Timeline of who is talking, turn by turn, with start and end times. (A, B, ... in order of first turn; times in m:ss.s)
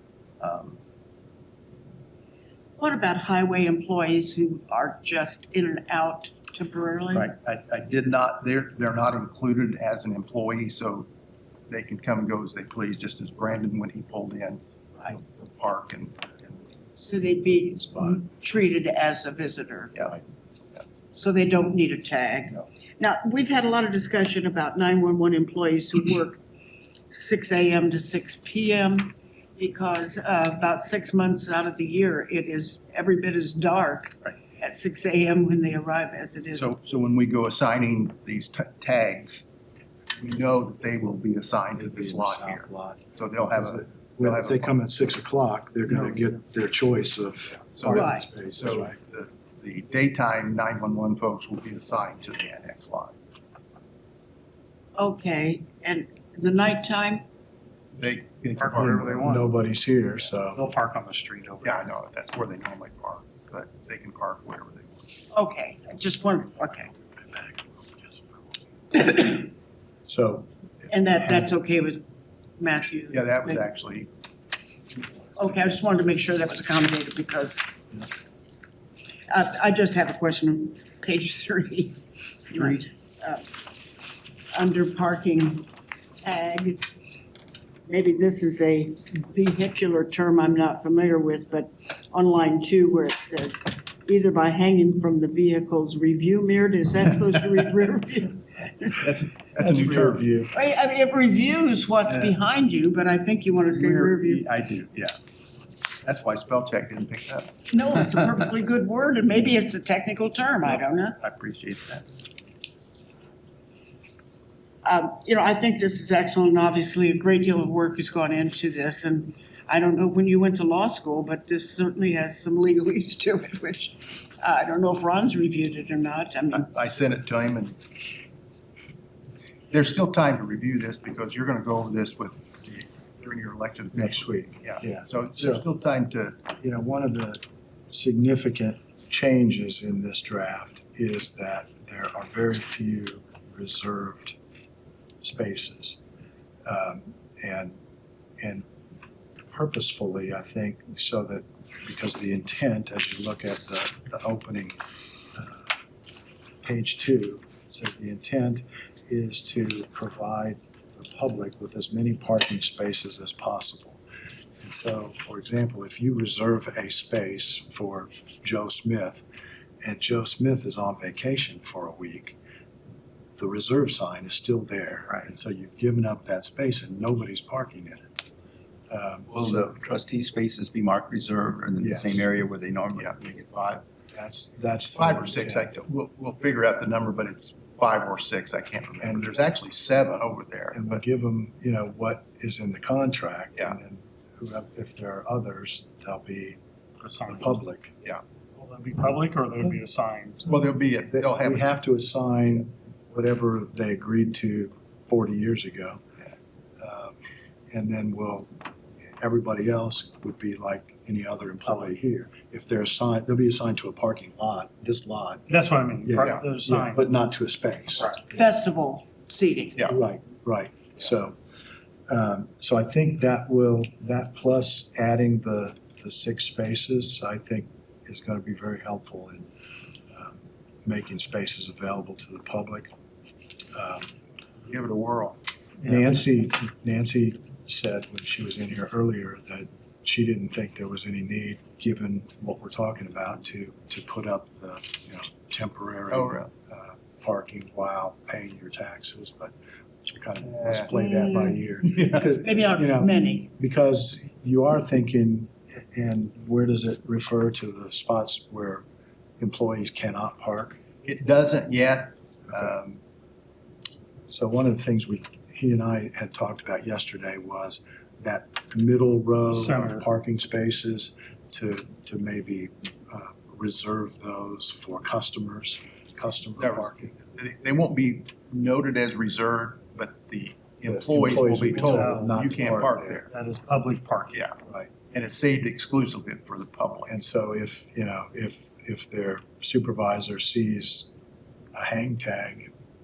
0:00.4-0:00.8 A
0:02.8-0:07.3 B
0:07.1-0:11.1 A
0:11.7-0:16.4 A
0:17.0-0:20.1 B
0:17.8-0:18.2 C
0:20.0-0:20.2 A
0:21.2-0:26.4 B
0:27.1-0:36.7 B
0:36.5-0:39.5 A
0:40.2-0:44.8 A
0:41.8-0:49.0 C
0:47.8-0:53.2 A
0:47.9-0:48.3 B
0:55.0-0:57.2 B
0:58.0-0:59.3 A
0:58.6-0:59.5 D
0:59.2-1:00.6 C
1:00.5-1:01.8 D
1:01.6-1:05.1 A
1:05.3-1:06.9 B
1:07.3-1:07.6 C
1:08.9-1:09.5 B
1:10.1-1:10.5 C
1:10.9-1:12.0 B
1:12.6-1:13.6 B
1:13.1-1:14.1 A
1:15.4-1:17.6 B
1:15.4-1:15.8 A
1:19.3-1:23.7 B
1:24.5-1:25.7 B
1:26.2-1:26.8 B
1:27.9-1:39.0 B
1:38.9-1:40.3 A
1:39.6-1:40.5 C
1:40.5-1:44.4 B
1:42.1-1:42.4 A
1:43.7-1:45.2 A
1:46.0-1:47.6 A
1:47.7-1:51.2 B
1:51.2-1:52.1 A
1:54.8-2:06.7 B
2:06.5-2:07.8 A
2:09.7-2:16.4 A
2:13.9-2:15.6 C
2:16.6-2:24.4 C
2:25.2-2:26.0 C
2:26.6-2:27.8 C
2:28.4-2:28.6 C
2:29.5-2:35.7 C
2:36.6-2:44.0 C
2:44.6-2:49.2 C
2:49.8-2:52.4 C
2:53.4-2:58.0 C
2:58.9-2:59.8 C
2:59.3-3:03.8 E
3:01.8-3:02.3 C
3:04.1-3:05.7 C
3:05.0-3:11.0 A
3:09.0-3:09.4 C
3:10.7-3:16.6 C
3:17.0-3:17.6 D
3:17.3-3:17.9 C
3:18.6-3:20.5 D
3:20.5-3:21.8 A
3:21.1-3:26.0 C
3:26.8-3:27.2 C
3:27.7-3:28.5 C
3:29.2-3:35.5 C
3:31.7-3:31.9 D
3:35.5-3:37.0 D
3:36.0-3:38.2 C
3:38.3-3:39.9 B
3:39.9-3:41.4 C
3:42.1-3:49.5 C
3:50.1-3:52.9 C
3:53.7-3:54.1 C
3:54.7-3:55.4 A
3:55.8-4:09.5 C
4:06.1-4:06.5 A
4:10.1-4:18.8 C
4:10.4-4:10.9 A
4:10.9-4:13.5 B
4:19.4-4:20.8 C
4:21.0-4:23.0 A
4:22.5-4:22.8 C
4:24.3-4:37.2 C
4:29.5-4:30.1 D
4:36.6-4:43.3 A
4:40.8-4:43.2 C
4:41.7-4:42.4 D
4:43.3-4:44.3 D
4:44.3-4:44.6 A
4:44.7-4:44.9 C
4:45.1-4:47.1 A
4:47.1-4:51.1 C
4:51.7-4:52.7 C